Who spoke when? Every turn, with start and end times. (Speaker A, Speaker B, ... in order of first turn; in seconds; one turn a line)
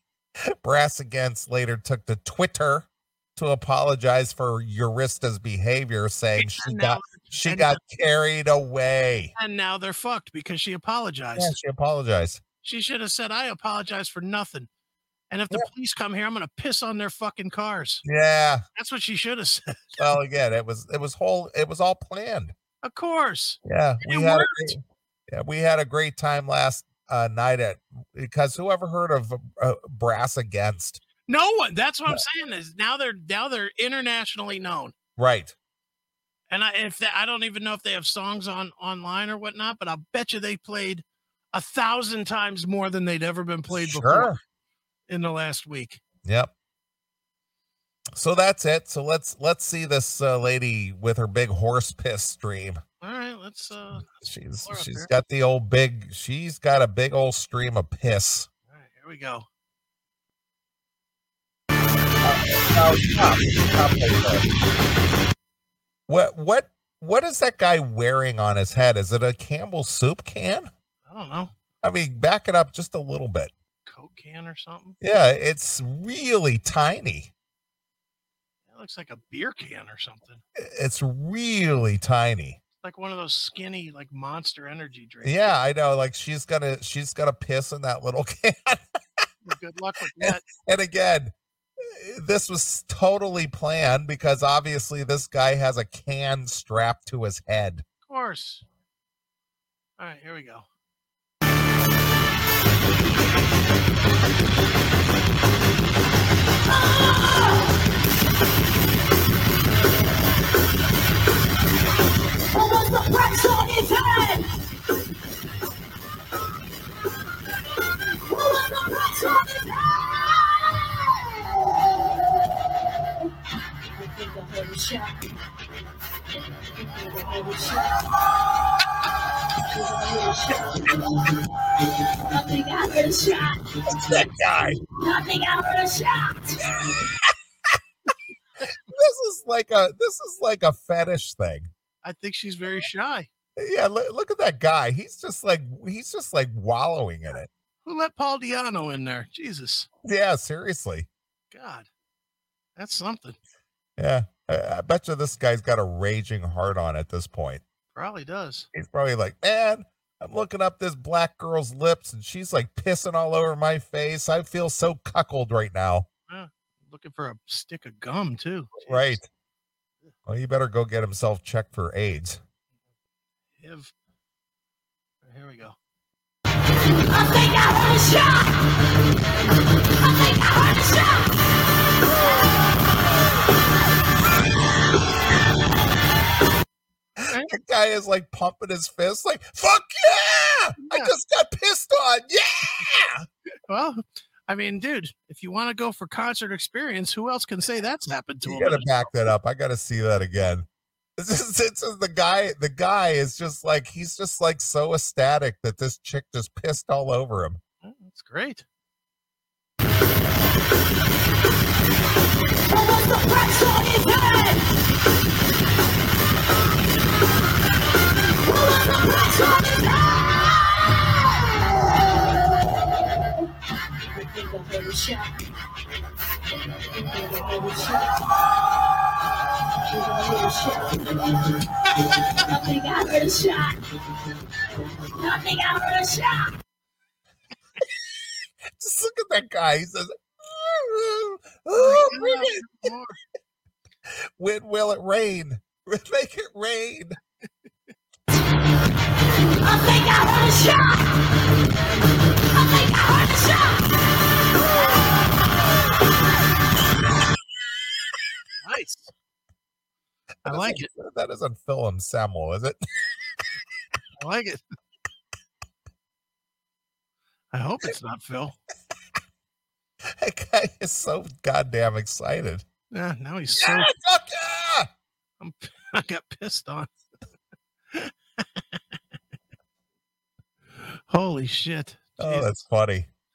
Speaker A: 0.5-9.3
Speaker B: 6.4-7.8
Speaker B: 9.4-11.6
Speaker A: 11.4-12.4
Speaker B: 12.6-14.7
Speaker B: 15.3-18.0
Speaker A: 18.0-18.6
Speaker B: 18.8-20.0
Speaker A: 20.0-22.5
Speaker B: 22.8-24.8
Speaker A: 23.6-31.0
Speaker B: 31.3-34.9
Speaker A: 35.2-35.5
Speaker B: 36.5-44.3
Speaker A: 43.7-44.4
Speaker B: 45.1-46.0
Speaker A: 46.2-46.5
Speaker A: 48.2-52.8
Speaker B: 53.0-54.1
Speaker A: 54.0-58.5
Speaker B: 54.6-55.1
Speaker B: 58.7-59.5
Speaker A: 62.2-64.5
Speaker A: 66.1-70.7
Speaker B: 71.1-71.5
Speaker A: 71.8-73.5
Speaker B: 73.9-75.0
Speaker A: 75.0-77.3
Speaker B: 78.7-80.4
Speaker A: 80.6-82.6
Speaker B: 82.8-85.5
Speaker A: 85.2-89.3
Speaker B: 89.4-90.4
Speaker A: 90.2-97.8
Speaker B: 98.1-98.6
Speaker B: 100.0-100.7
Speaker C: 106.7-107.7
Speaker C: 112.6-114.5
Speaker C: 118.2-121.1
Speaker C: 123.9-125.2
Speaker C: 126.6-128.1
Speaker C: 129.6-136.8
Speaker A: 134.0-134.8
Speaker A: 138.9-141.7
Speaker B: 142.0-143.3
Speaker A: 143.6-147.5
Speaker B: 147.8-149.9
Speaker A: 150.0-151.1
Speaker B: 151.5-151.9
Speaker B: 152.8-153.4
Speaker A: 154.0-157.6
Speaker B: 157.9-158.7
Speaker A: 158.7-166.1
Speaker B: 166.3-169.2
Speaker A: 168.9-169.2
Speaker A: 170.3-172.4
Speaker B: 173.6-173.9
Speaker B: 175.2-175.8
Speaker C: 176.8-178.9
Speaker C: 179.8-181.4
Speaker B: 187.2-187.5
Speaker A: 187.5-193.2
Speaker B: 190.8-191.1
Speaker B: 193.7-199.0
Speaker A: 198.5-200.7
Speaker A: 201.2-207.6
Speaker B: 207.8-208.7
Speaker C: 213.2-214.5
Speaker C: 219.4-220.5
Speaker C: 224.1-225.3
Speaker C: 226.9-228.3
Speaker C: 229.8-234.3
Speaker C: 235.1-236.5
Speaker A: 238.7-242.9
Speaker B: 241.7-243.2
Speaker A: 244.4-247.2
Speaker C: 249.4-251.2
Speaker C: 252.4-254.1
Speaker B: 258.6-259.1
Speaker B: 260.4-260.9
Speaker A: 260.5-262.8
Speaker B: 264.2-264.6
Speaker B: 267.5-268.6
Speaker A: 270.2-272.7
Speaker B: 272.9-273.9
Speaker A: 273.6-274.9
Speaker B: 275.4-276.9
Speaker B: 277.9-278.8
Speaker B: 280.8-282.6
Speaker A: 282.2-283.1